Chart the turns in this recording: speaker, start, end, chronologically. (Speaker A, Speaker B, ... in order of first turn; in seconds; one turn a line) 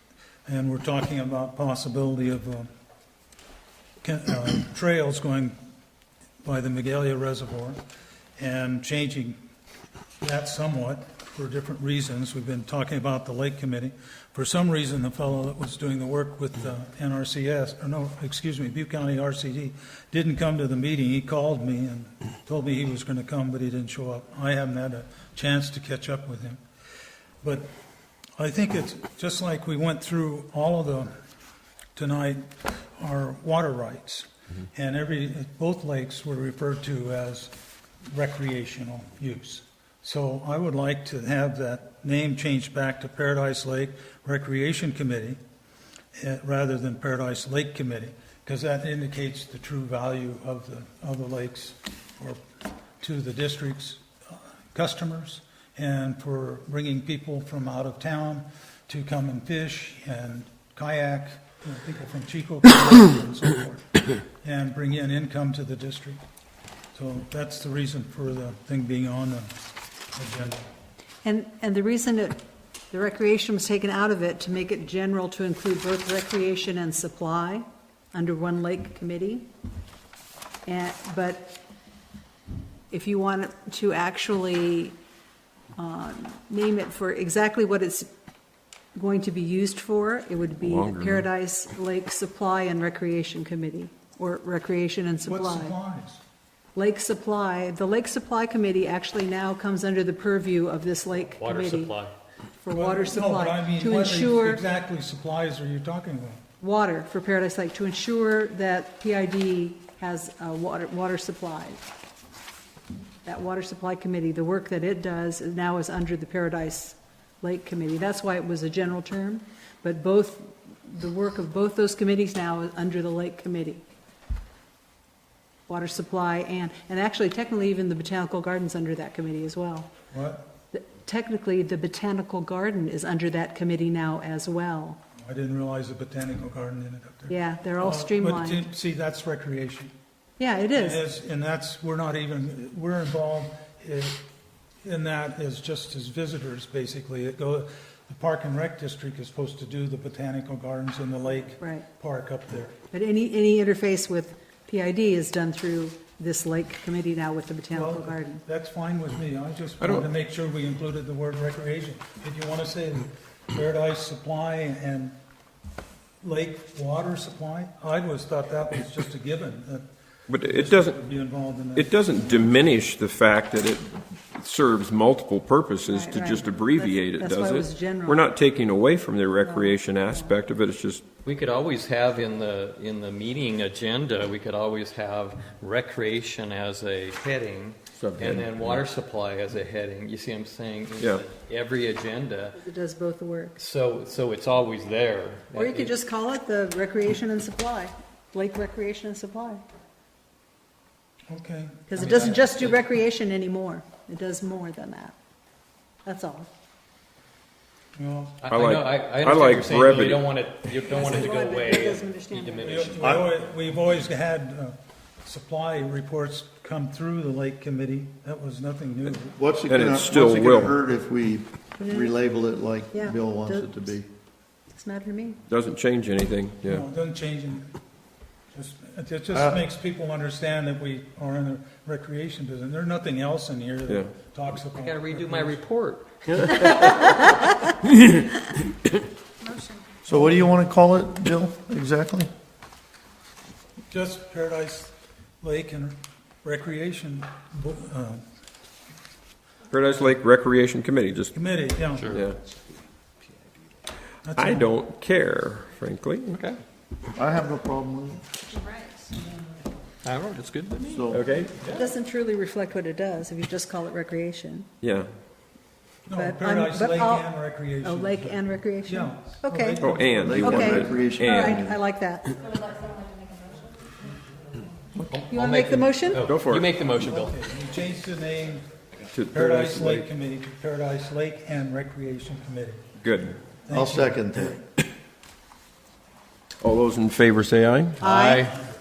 Speaker A: 0.5-2.7
Speaker A: 4.0-5.6
Speaker A: 6.4-7.8
Speaker A: 8.4-9.4
Speaker A: 10.2-26.6
Speaker A: 27.4-27.7
Speaker A: 28.4-31.1
Speaker A: 31.9-45.4
Speaker A: 46.1-52.4
Speaker A: 53.0-66.2
Speaker A: 66.9-69.5
Speaker A: 70.1-70.7
Speaker B: 71.2-79.5
Speaker B: 80.7-81.6
Speaker B: 82.9-85.0
Speaker B: 85.8-88.1
Speaker B: 88.9-95.7
Speaker C: 90.6-91.3
Speaker A: 95.2-96.2
Speaker B: 96.7-102.0
Speaker D: 101.3-102.1
Speaker B: 102.6-104.7
Speaker A: 102.7-106.4
Speaker B: 106.6-111.8
Speaker B: 113.2-123.8
Speaker B: 125.7-129.9
Speaker A: 130.1-130.5
Speaker B: 130.7-135.0
Speaker A: 135.2-139.9
Speaker B: 137.3-138.7
Speaker B: 140.4-141.0
Speaker A: 140.7-144.2
Speaker A: 144.8-152.8
Speaker B: 151.6-151.8
Speaker B: 152.9-158.4
Speaker A: 157.7-165.1
Speaker C: 159.8-160.1
Speaker A: 166.2-172.5
Speaker C: 170.3-171.0
Speaker C: 171.8-181.0
Speaker B: 175.9-178.3
Speaker B: 179.4-180.3
Speaker D: 181.2-192.6
Speaker C: 188.0-188.5
Speaker B: 192.5-193.6
Speaker D: 193.6-195.9
Speaker B: 195.5-199.6
Speaker A: 201.3-202.4
Speaker B: 201.9-205.1
Speaker D: 202.0-202.7
Speaker B: 206.0-206.5
Speaker A: 207.9-208.4
Speaker D: 208.4-213.2
Speaker C: 208.5-210.3
Speaker B: 210.8-212.9
Speaker A: 212.6-219.4
Speaker E: 213.0-213.3
Speaker E: 219.3-224.0
Speaker C: 219.7-220.8
Speaker B: 221.8-222.1
Speaker B: 222.9-224.0
Speaker B: 224.7-225.4
Speaker C: 225.5-226.8
Speaker A: 226.7-227.7
Speaker A: 228.5-235.6
Speaker E: 229.3-229.6
Speaker D: 234.7-237.2
Speaker E: 240.0-242.3
Speaker A: 243.9-248.2
Speaker C: 249.7-251.3
Speaker A: 251.3-252.2
Speaker D: 251.9-252.2
Speaker C: 252.1-252.4
Speaker A: 254.2-254.7
Speaker C: 254.3-256.4
Speaker E: 257.1-258.2
Speaker D: 260.0-261.8
Speaker E: 260.8-261.2
Speaker C: 261.1-261.6
Speaker B: 261.7-264.7
Speaker C: 264.8-265.1
Speaker A: 266.1-270.9
Speaker B: 266.1-272.4
Speaker C: 269.8-271.6
Speaker E: 270.1-271.8
Speaker D: 275.1-277.4
Speaker B: 275.3-276.3
Speaker C: 276.2-276.7
Speaker A: 276.9-278.7
Speaker C: 279.1-280.1
Speaker A: 279.3-282.9
Speaker C: 283.0-283.4
Speaker A: 283.6-284.4
Speaker E: 283.7-284.6
Speaker C: 286.6-288.1
Speaker B: 288.0-288.5
Speaker D: 288.1-288.6